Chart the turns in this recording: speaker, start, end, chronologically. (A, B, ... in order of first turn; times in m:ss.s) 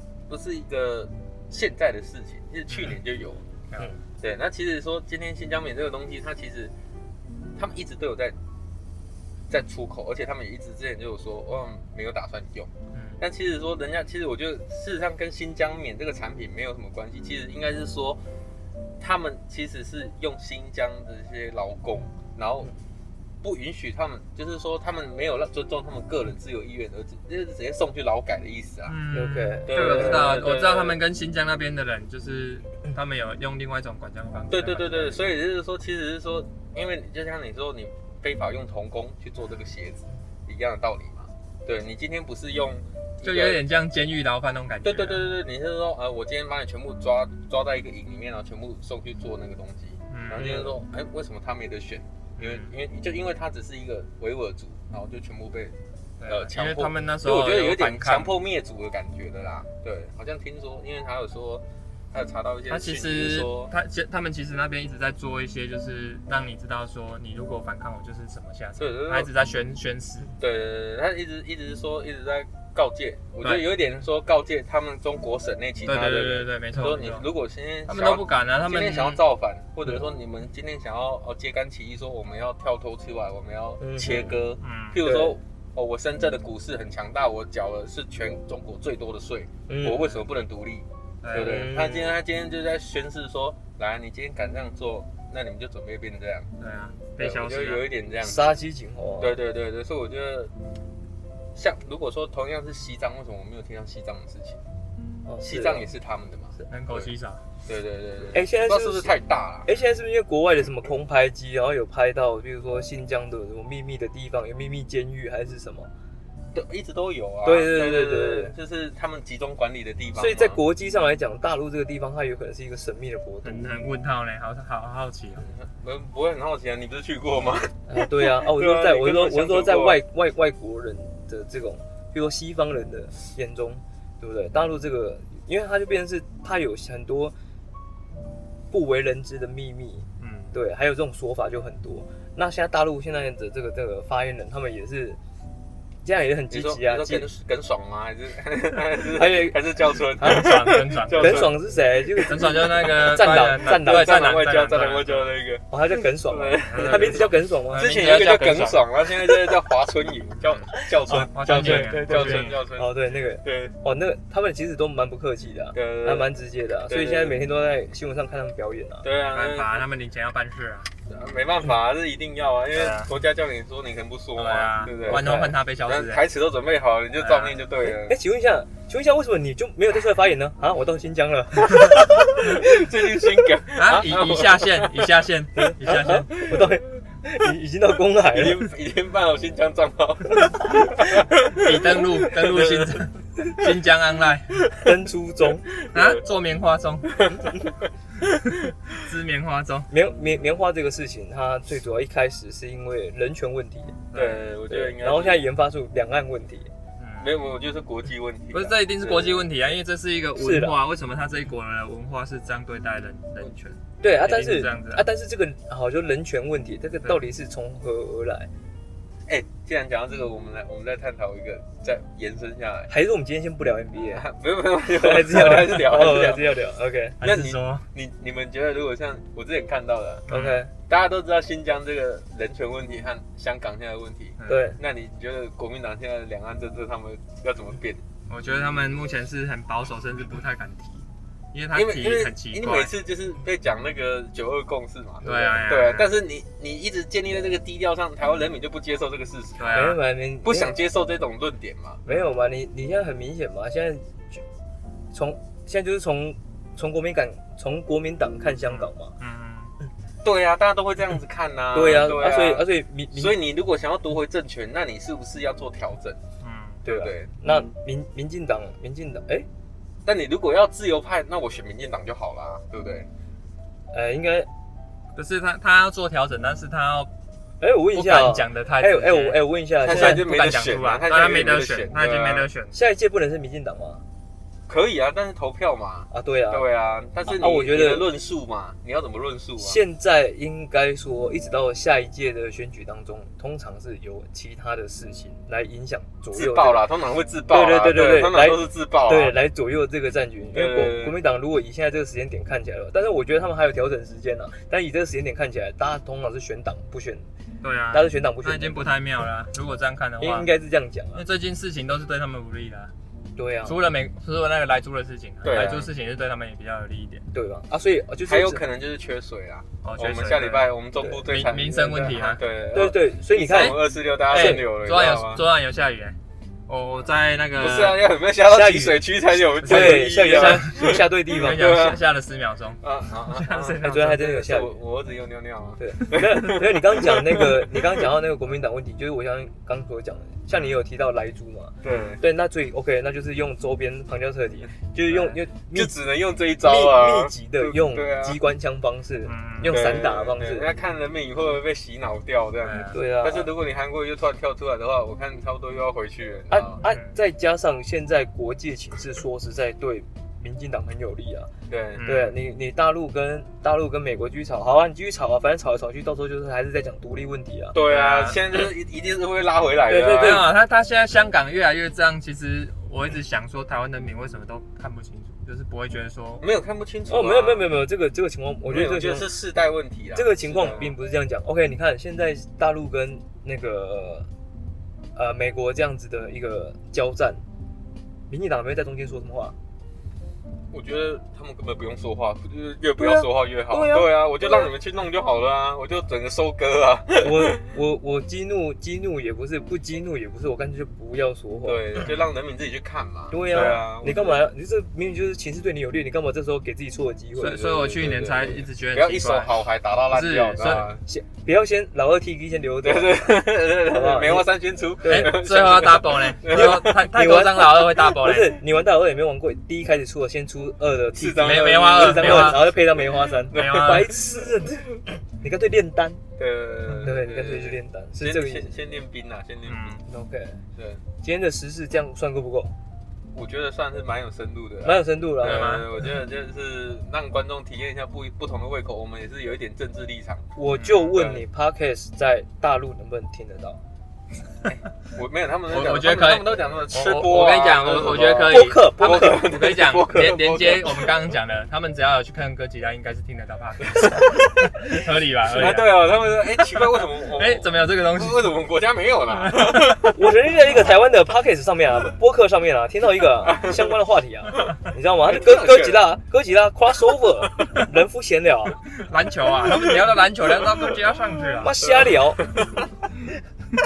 0:00.3-0:03.4 A
0:02.7-0:03.0 B
0:03.7-0:04.0 B
0:04.2-0:06.7 A
0:07.6-0:08.4 A
0:09.5-0:18.2 A
0:12.9-0:13.2 B
0:19.0-0:22.7 A
0:23.4-0:29.0 A
0:28.9-0:35.2 B
0:29.1-0:30.4 C
0:29.6-0:31.0 A
0:34.5-0:43.6 A
0:43.2-0:45.3 B
0:44.8-0:55.7 A
0:50.1-0:50.6 B
0:50.4-0:50.7 C
0:52.4-0:52.7 B
0:56.2-0:58.4 B
0:56.3-1:03.7 A
1:02.7-1:10.3 B
1:08.8-1:09.3 A
1:10.4-1:36.5 A
1:15.8-1:17.2 B
1:17.9-1:19.2 B
1:23.8-1:24.4 C
1:24.6-1:25.0 B
1:25.0-1:25.4 C
1:29.7-1:30.1 C
1:31.2-1:31.7 B
1:31.3-1:32.2 C
1:36.6-1:37.8 B
1:37.2-1:38.6 A
1:38.2-1:39.4 C
1:39.2-1:40.5 A
1:41.5-1:44.6 A
1:45.2-1:45.9 C
1:45.4-1:47.1 A
1:46.7-1:47.4 B
1:47.6-1:49.7 A
1:48.3-1:49.1 C
1:49.6-1:55.9 C
1:56.5-2:00.6 A
1:57.4-1:58.5 C
2:00.1-2:03.7 C
2:03.4-2:05.5 B
2:05.4-2:10.0 A
2:07.9-2:17.3 C
2:18.7-2:25.2 C
2:20.2-2:20.6 B
2:26.0-2:27.3 C
2:26.5-2:31.5 A
2:29.1-2:29.6 C
2:30.2-2:30.6 C
2:30.2-2:31.5 B
2:31.1-2:34.3 C
2:32.1-2:43.7 A
2:32.2-2:35.3 B
2:35.7-2:37.9 C
2:36.6-2:38.8 B
2:39.3-2:39.5 C
2:40.4-2:42.6 B
2:40.7-2:49.1 C
2:45.7-2:46.3 A
2:46.9-2:47.4 A
2:49.0-2:49.8 A
2:49.3-2:50.9 B
2:51.1-2:55.2 A
2:52.7-2:53.1 B
2:54.4-2:56.2 B
2:55.0-2:55.5 C
2:55.8-2:58.2 A
2:57.2-2:57.6 B
2:58.0-3:02.8 C
3:02.4-3:05.0 A
3:03.7-3:06.3 B
3:05.6-3:08.7 C
3:06.4-3:06.7 A
3:08.3-3:13.0 A
3:10.4-3:10.8 C
3:11.5-3:14.7 B
3:14.7-3:15.7 C
3:15.9-3:16.2 A
3:15.9-3:17.2 B
3:17.1-3:17.6 A
3:18.9-3:19.9 B
3:19.9-3:24.0 C
3:24.1-3:24.4 B
3:24.1-3:25.4 A
3:24.7-3:26.7 C
3:27.0-3:27.3 B
3:27.2-3:29.5 A
3:28.5-3:35.1 B
3:30.4-3:30.8 C
3:34.0-3:38.5 C
3:39.3-3:42.9 A
3:42.9-3:44.2 C
3:44.1-3:46.5 A
3:44.8-3:47.2 C
3:47.2-3:47.8 B
3:47.2-3:50.3 A
3:50.3-3:50.6 B
3:50.3-3:50.7 C
3:50.9-3:58.0 A
3:54.4-3:54.7 B
3:54.5-3:54.8 C
3:58.3-4:02.9 B
4:01.7-4:09.9 A
4:05.2-4:05.6 C
4:05.2-4:06.1 B
4:09.6-4:10.0 B
4:09.7-4:10.7 C
4:10.4-4:12.0 A
4:12.0-4:14.4 C
4:15.1-4:19.1 C
4:18.7-4:19.7 B
4:20.2-4:26.2 A
4:21.7-4:23.4 C
4:26.4-4:26.8 B
4:26.8-4:27.3 A
4:26.8-4:29.5 C
4:30.0-4:33.1 A
4:33.9-4:34.5 C
4:35.1-4:37.1 B
4:37.6-4:40.3 C
4:37.9-4:42.8 B
4:39.8-4:42.5 A
4:42.7-4:44.0 C
4:44.7-4:49.8 A
4:46.1-4:46.6 C
4:47.3-4:48.1 C
4:49.6-4:56.8 C
4:56.3-4:59.4 A
4:57.5-5:07.2 C
5:00.5-5:01.2 A
5:07.6-5:10.5 B
5:07.9-5:08.9 C
5:10.2-5:11.2 C
5:11.1-5:12.9 B
5:13.4-5:13.8 C
5:13.6-5:17.3 B
5:15.4-5:15.9 A
5:17.3-5:18.6 C
5:18.3-5:25.4 A
5:19.8-5:20.7 B
5:21.3-5:22.4 B
5:22.7-5:24.7 C
5:24.3-5:26.2 B
5:26.7-5:28.0 B
5:27.6-5:32.0 A
5:28.4-5:31.9 C
5:29.6-5:34.3 B
5:32.8-5:38.0 A
5:33.8-5:34.7 C
5:35.8-5:46.0 C
5:41.8-5:42.2 A
5:45.1-5:45.4 B
5:45.7-5:48.4 A
5:46.6-5:50.7 C
5:49.2-5:49.8 B
5:49.6-5:56.8 A
5:52.6-5:53.0 B
5:52.9-5:53.5 C
5:56.5-6:01.5 C
5:56.8-5:57.2 B
6:01.7-6:02.1 A
6:02.0-6:02.4 B
6:02.0-6:07.8 C
6:07.7-6:10.5 A
6:07.8-6:08.4 B
6:09.9-6:10.5 C
6:10.1-6:16.4 B
6:16.4-6:17.7 A
6:17.1-6:19.3 C
6:18.7-6:20.9 A
6:20.1-6:24.3 C
6:25.2-6:27.4 C
6:28.3-6:29.5 C
6:30.7-6:37.7 A
6:33.0-6:34.7 C
6:37.2-6:41.9 C
6:41.6-6:44.5 A
6:43.3-6:47.6 C
6:43.5-6:43.8 B
6:47.4-6:50.9 B
6:47.4-6:51.0 A
6:51.0-6:54.5 C
6:52.8-6:56.9 A
6:55.0-6:55.4 C
6:55.0-6:58.6 B
6:56.5-7:06.2 C
7:01.1-7:04.1 A
7:01.4-7:02.7 B
7:03.5-7:04.1 B
7:06.4-7:10.0 A
7:07.0-7:08.7 C
7:09.6-7:10.0 B
7:10.1-7:10.6 C
7:10.8-7:11.0 A
7:11.2-7:12.7 C
7:13.3-7:20.4 A
7:14.8-7:15.9 C
7:15.4-7:15.9 B
7:20.6-7:23.8 C
7:20.8-7:21.2 B
7:21.1-7:21.4 A
7:24.6-7:31.1 A
7:25.7-7:36.1 B
7:28.4-7:29.6 C
7:35.5-7:40.1 A
7:37.3-7:38.5 B
7:39.4-7:40.1 B
7:40.0-7:48.8 C
7:43.4-7:43.9 A
7:45.2-7:46.1 A
7:49.0-7:51.8 B
7:51.6-7:52.4 C
7:51.8-7:52.9 A